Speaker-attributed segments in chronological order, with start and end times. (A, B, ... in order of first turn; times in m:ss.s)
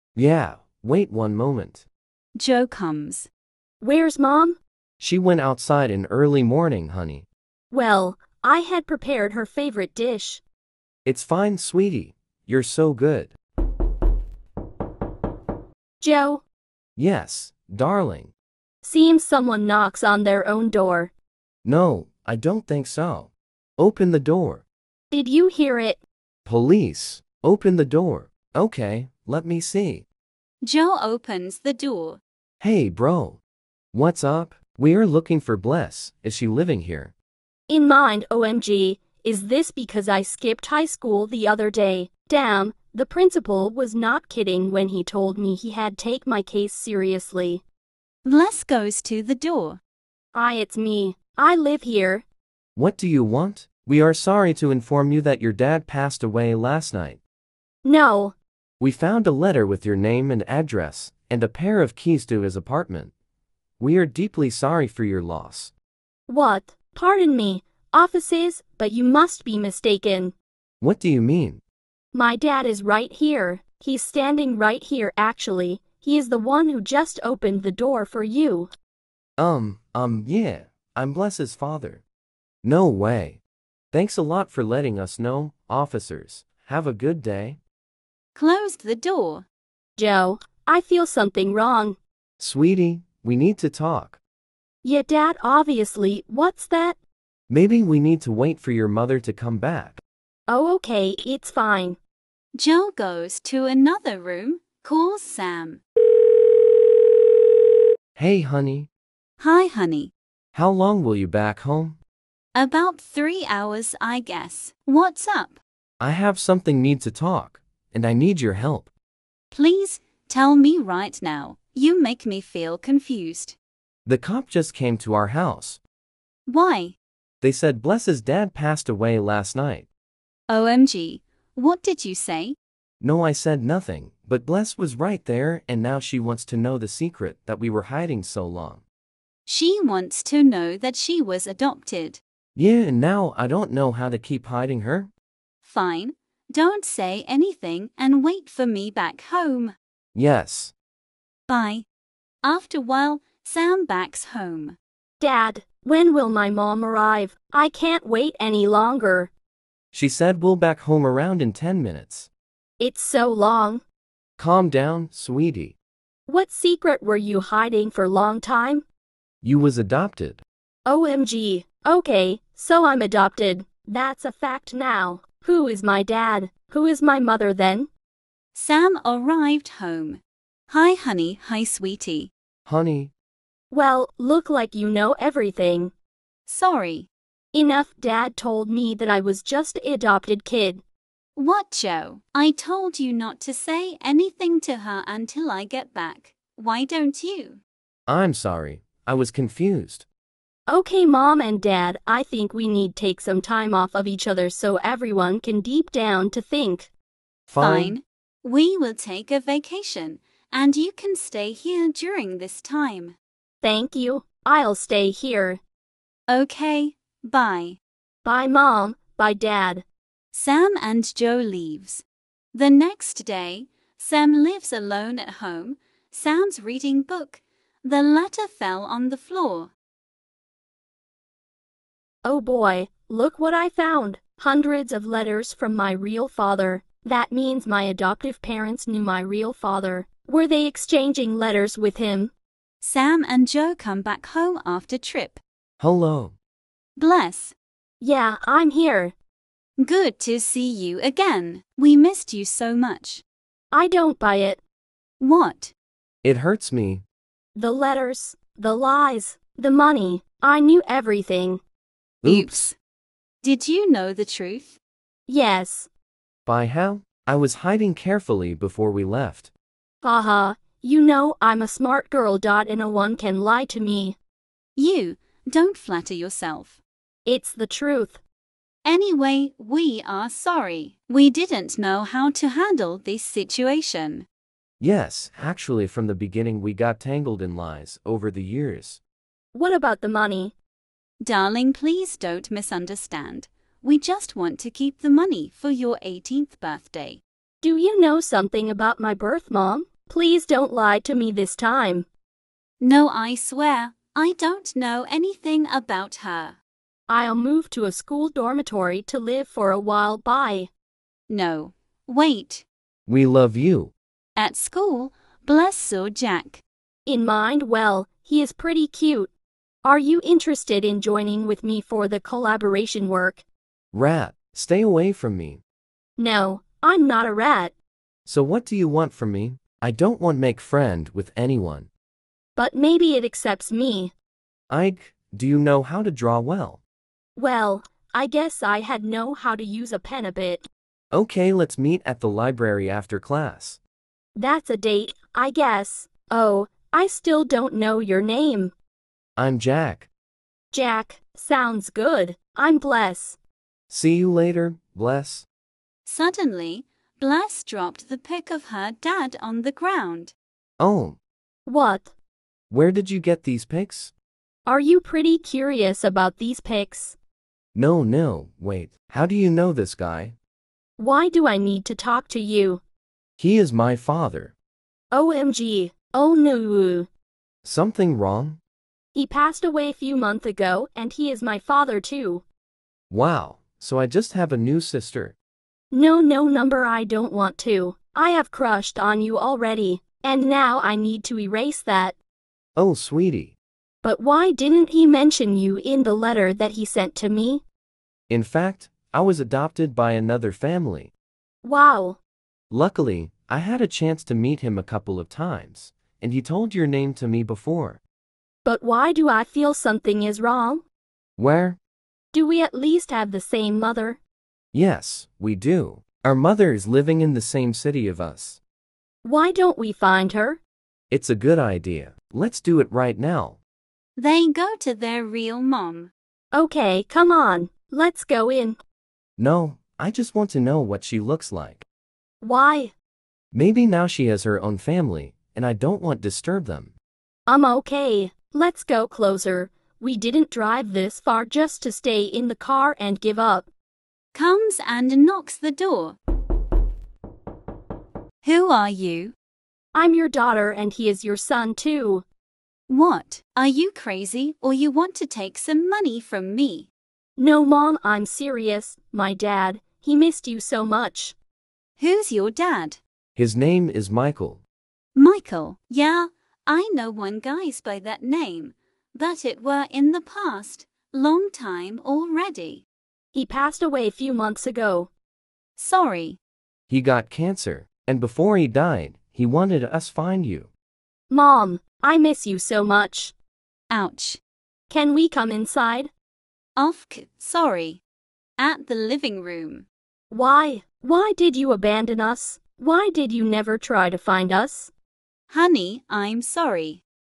0:00.2-0:01.8 A
0:02.4-0:03.3 B
0:03.8-0:04.6 C
0:05.0-0:07.2 A
0:07.7-0:10.4 C
0:11.0-0:13.3 A
0:16.0-0:16.4 C
0:17.0-0:18.3 A
0:18.8-0:21.1 C
0:21.6-0:24.6 A
0:25.1-0:26.0 C
0:26.4-0:30.0 A
0:30.6-0:32.2 B
0:32.6-0:33.4 A
0:33.9-0:37.1 A
0:37.7-0:47.6 C
0:48.2-0:49.8 B
0:50.3-0:52.2 C
0:52.8-0:57.2 A
0:57.8-0:58.3 C
0:58.8-1:03.1 A
1:03.8-1:05.7 A
1:06.3-1:10.3 C
1:10.8-1:11.6 A
1:12.1-1:18.7 C
1:19.4-1:22.0 A
1:22.6-1:23.4 A
1:23.9-1:27.6 A
1:28.3-1:29.4 B
1:30.0-1:32.0 C
1:32.4-1:34.2 A
1:34.8-1:37.0 C
1:37.5-1:40.0 A
1:40.5-1:42.0 C
1:42.5-1:45.8 B
1:48.2-1:48.9 A
1:49.4-1:50.1 B
1:50.5-1:52.0 A
1:52.5-1:55.6 B
1:56.0-1:58.9 A
1:59.5-2:03.6 B
2:04.0-2:05.8 A
2:06.5-2:07.0 B
2:07.4-2:09.9 A
2:10.5-2:12.6 B
2:13.0-2:18.8 A
2:19.4-2:22.2 B
2:22.6-2:25.1 A
2:25.6-2:29.7 B
2:30.1-2:30.7 A
2:31.5-2:31.8 B
2:32.4-2:34.8 B
2:35.2-2:39.3 C
2:39.9-2:42.3 A
2:42.8-2:43.8 C
2:44.4-2:45.8 A
2:46.2-2:48.8 C
2:49.4-2:50.4 A
2:50.8-2:57.9 C
2:58.5-3:02.3 B
3:02.6-3:03.1 A
3:03.7-3:05.9 C
3:06.5-3:07.1 B
3:07.5-3:10.8 C
3:11.4-3:17.6 B
3:18.1-3:20.0 A
3:20.7-3:26.9 C
3:27.5-3:27.9 A
3:27.6-3:33.2 B
3:33.6-3:35.6 C
3:36.3-3:37.8 B
3:38.2-3:39.8 C
3:40.3-3:49.7 B
3:52.2-4:02.3 C
4:02.8-4:05.4 B
4:05.8-4:06.3 A
4:07.0-4:07.5 B
4:08.0-4:09.1 C
4:09.8-4:13.2 B
4:13.7-4:14.6 C
4:15.2-4:15.7 B
4:16.2-4:17.0 A
4:17.5-4:21.6 C
4:22.2-4:22.8 B
4:22.2-4:22.7 A
4:23.4-4:24.8 B
4:25.3-4:25.9 C
4:26.4-4:29.5 A
4:30.0-4:34.2 C
4:34.8-4:36.8 B
4:37.2-4:38.2 C
4:38.8-4:44.2 B
4:44.8-4:49.0 A
4:49.5-4:50.5 C
4:51.2-4:57.2 B
4:57.6-5:02.1 C
5:02.8-5:06.6 B
5:07.1-5:10.7 C
5:11.3-5:12.6 B
5:13.1-5:13.9 A
5:14.4-5:16.6 B
5:17.0-5:19.3 C
5:19.8-5:23.4 C
5:23.9-5:25.6 A
5:26.2-5:27.7 C
5:28.2-5:31.9 A
5:32.6-5:34.1 C
5:34.7-5:36.8 A
5:37.4-5:40.7 C
5:41.1-5:43.8 A
5:44.3-5:48.7 C
5:49.4-5:50.1 A
5:50.7-5:53.4 C
5:53.9-5:55.4 A
5:56.0-6:00.3 B
6:00.8-6:01.2 A
6:01.6-6:02.1 C
6:02.7-6:04.1 A
6:04.6-6:07.2 C
6:07.7-6:10.4 A
6:11.0-6:12.8 C
6:13.4-6:14.5 A
6:15.1-6:17.1 C
6:17.6-6:18.6 A
6:19.1-6:22.4 C
6:23.1-6:25.3 A
6:25.9-6:32.2 C
6:32.8-6:33.5 A
6:34.0-6:37.6 C
6:38.3-6:41.1 A
6:41.6-6:42.2 C
6:42.7-6:48.0 A
6:48.6-6:50.8 C
6:51.4-6:51.8 A
6:52.3-6:54.2 C
6:54.7-6:58.6 A
6:59.2-7:00.6 C
7:01.1-7:03.6 A
7:04.2-7:06.1 B
7:06.5-7:08.8 C
7:09.4-7:11.8 A
7:12.4-7:12.9 C
7:13.5-7:16.9 A
7:17.4-7:23.7 C
7:24.3-7:26.2 B
7:28.4-7:29.3 B
7:29.9-7:32.2 C
7:32.9-7:36.9 B
7:37.4-7:41.4 C
7:42.0-7:43.0 B
7:43.4-7:44.6 A
7:45.1-7:52.8 B
7:53.3-7:55.1 C
7:55.8-7:56.4 B
7:56.9-8:00.7 A
8:01.3-8:03.3 C
8:03.9-8:04.4 B
8:04.9-8:06.1 C
8:06.8-8:08.0 B
8:08.6-8:09.9 B
8:10.3-8:14.9 C
8:15.5-8:17.0 B